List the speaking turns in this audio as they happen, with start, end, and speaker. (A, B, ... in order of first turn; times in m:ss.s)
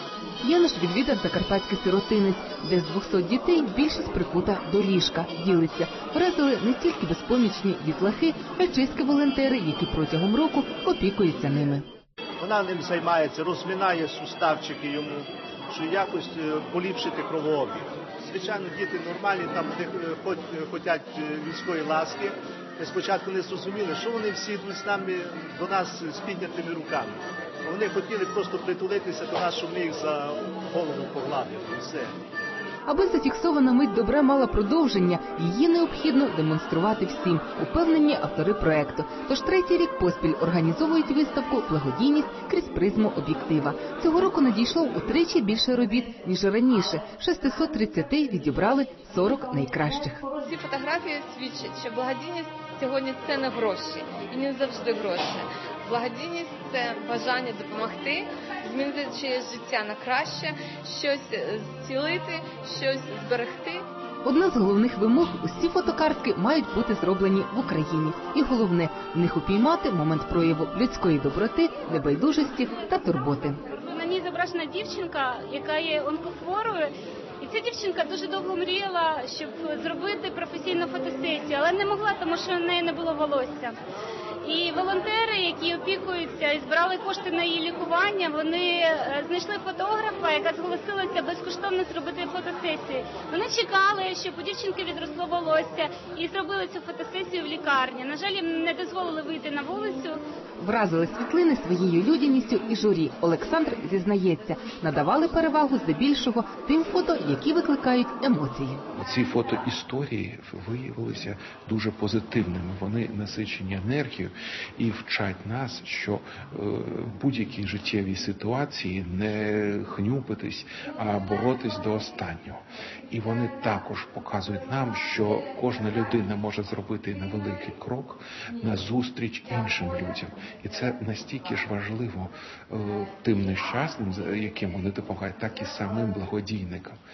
0:00.4-0:11.8 A
0:12.4-0:32.1 B
0:32.9-0:50.2 A
0:50.4-1:03.8 C
1:04.2-1:13.6 A
1:13.7-1:23.8 D
1:24.4-1:40.2 D
1:40.6-1:48.8 A
1:48.9-2:17.0 E